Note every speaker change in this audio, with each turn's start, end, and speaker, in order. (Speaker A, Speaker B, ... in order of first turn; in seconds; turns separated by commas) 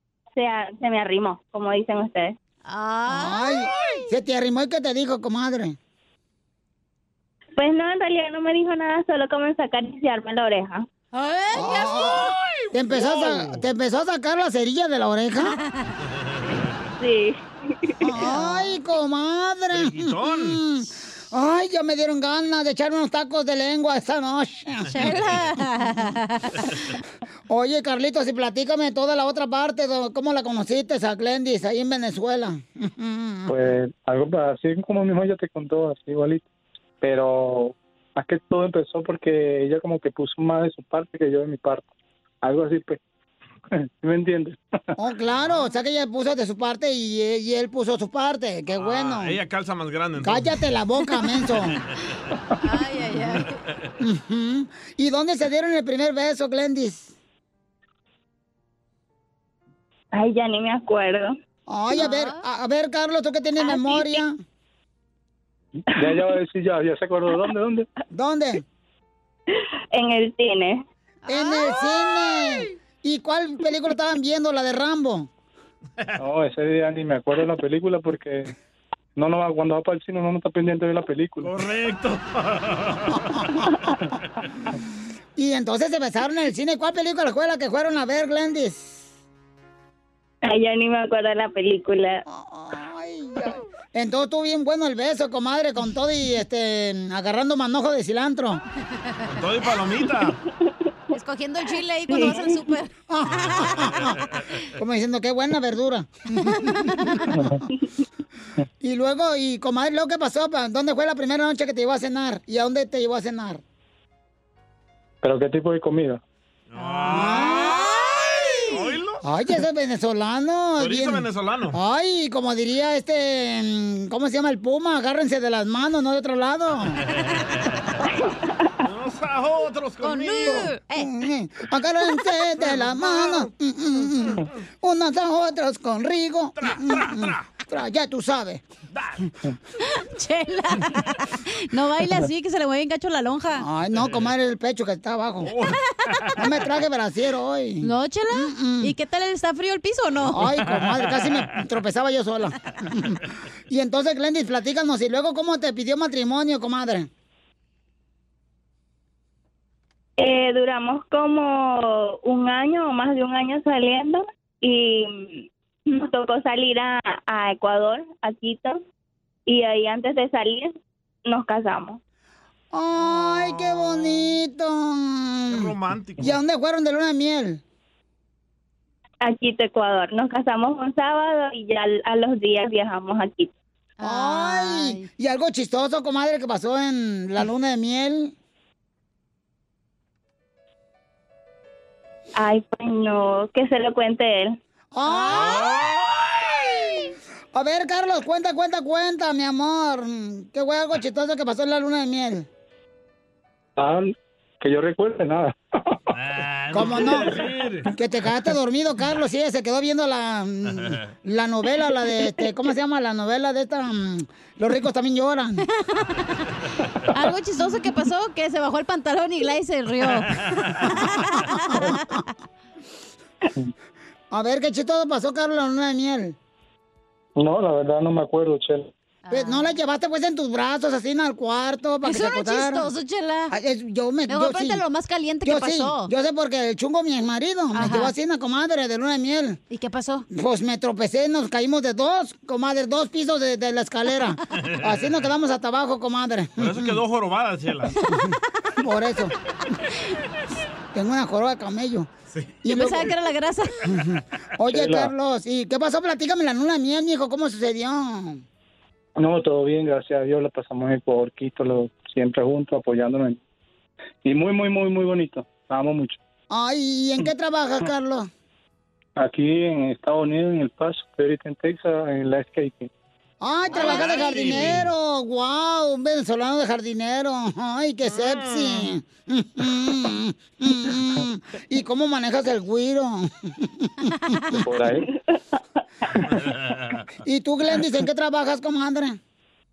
Speaker A: 0.3-2.3, Speaker B: 2.6-4.1, Speaker C: 3.1-5.8, Speaker A: 7.6-10.8, Speaker B: 11.1-12.2, Speaker C: 11.5-15.6, Speaker D: 12.0-13.7, Speaker B: 15.6-15.9, Speaker D: 16.2-16.8, Speaker A: 17.0-17.4, Speaker C: 18.0-25.1, Speaker B: 18.3-18.6, Speaker D: 19.7-20.6, Speaker B: 24.9-26.6, Speaker C: 27.5-33.6, Speaker E: 33.5-36.4, Speaker E: 37.0-41.9, Speaker E: 42.4-43.0, Speaker E: 43.7-44.6, Speaker C: 45.0-49.4, Speaker D: 48.7-50.6, Speaker C: 50.2-51.8, Speaker B: 52.6-53.5, Speaker C: 54.0-57.1, Speaker A: 60.1-61.3, Speaker C: 61.7-64.4, Speaker B: 61.9-62.4, Speaker E: 66.0-67.9, Speaker C: 68.1-68.6, Speaker A: 69.9-70.8, Speaker B: 71.3-71.9, Speaker C: 71.3-75.3, Speaker E: 76.2-78.5, Speaker E: 79.2-81.6, Speaker D: 81.4-83.3, Speaker C: 85.3-89.0, Speaker A: 90.4-92.2, Speaker C: 92.3-98.6, Speaker D: 99.3-100.4, Speaker B: 101.1-103.9, Speaker C: 103.1-104.1, Speaker D: 103.8-104.1, Speaker C: 104.8-106.9, Speaker B: 106.3-107.2, Speaker E: 107.3-107.6, Speaker C: 108.8-113.6, Speaker E: 115.2-116.2, Speaker D: 116.7-117.6, Speaker B: 116.8-118.8, Speaker C: 117.1-118.0, Speaker D: 118.7-119.2, Speaker C: 119.2-127.0, Speaker D: 120.8-121.8, Speaker D: 128.8-130.7, Speaker B: 130.0-131.1, Speaker C: 130.5-138.6, Speaker D: 132.6-133.5, Speaker D: 134.0-134.4, Speaker D: 136.6-137.4, Speaker D: 138.9-139.2, Speaker B: 139.8-143.6, Speaker C: 143.6-145.5, Speaker D: 143.9-144.2, Speaker D: 145.4-146.4, Speaker C: 146.4-148.9, Speaker B: 147.8-150.4, Speaker C: 150.3-157.1, Speaker D: 151.0-151.3, Speaker A: 160.2-168.8, Speaker A: 169.5-170.7, Speaker A: 171.2-172.0, Speaker C: 172.7-177.6, Speaker D: 173.0-174.2, Speaker D: 175.5-176.4, Speaker A: 179.2-183.5, Speaker B: 184.0-185.1, Speaker C: 184.0-188.3, Speaker A: 192.4-194.6, Speaker C: 194.9-195.7, Speaker B: 195.1-195.6, Speaker D: 195.3-196.2, Speaker C: 197.5-202.5, Speaker E: 203.8-205.5, Speaker D: 206.1-207.9, Speaker C: 206.7-207.4, Speaker C: 207.9-215.7, Speaker B: 216.0-216.2, Speaker B: 217.2-222.3, Speaker C: 224.3-226.3, Speaker E: 227.4-228.9, Speaker B: 229.2-229.7, Speaker C: 229.3-232.9, Speaker B: 232.0-233.5, Speaker C: 233.5-234.8, Speaker B: 234.3-236.1, Speaker C: 235.4-239.6, Speaker B: 237.7-238.1, Speaker B: 239.7-240.2, Speaker C: 240.3-247.0, Speaker D: 244.7-245.1, Speaker D: 246.6-247.9, Speaker C: 248.1-249.3, Speaker C: 250.9-252.1, Speaker C: 252.6-253.1, Speaker B: 252.7-253.8, Speaker C: 254.0-258.4, Speaker E: 254.7-255.1, Speaker E: 259.2-263.4, Speaker E: 264.2-266.2, Speaker C: 266.5-268.3, Speaker E: 269.2-272.9, Speaker C: 273.4-284.6, Speaker D: 273.7-274.9, Speaker D: 278.1-278.9, Speaker B: 284.2-284.5, Speaker E: 284.6-285.0, Speaker D: 286.3-287.0, Speaker C: 287.2-289.2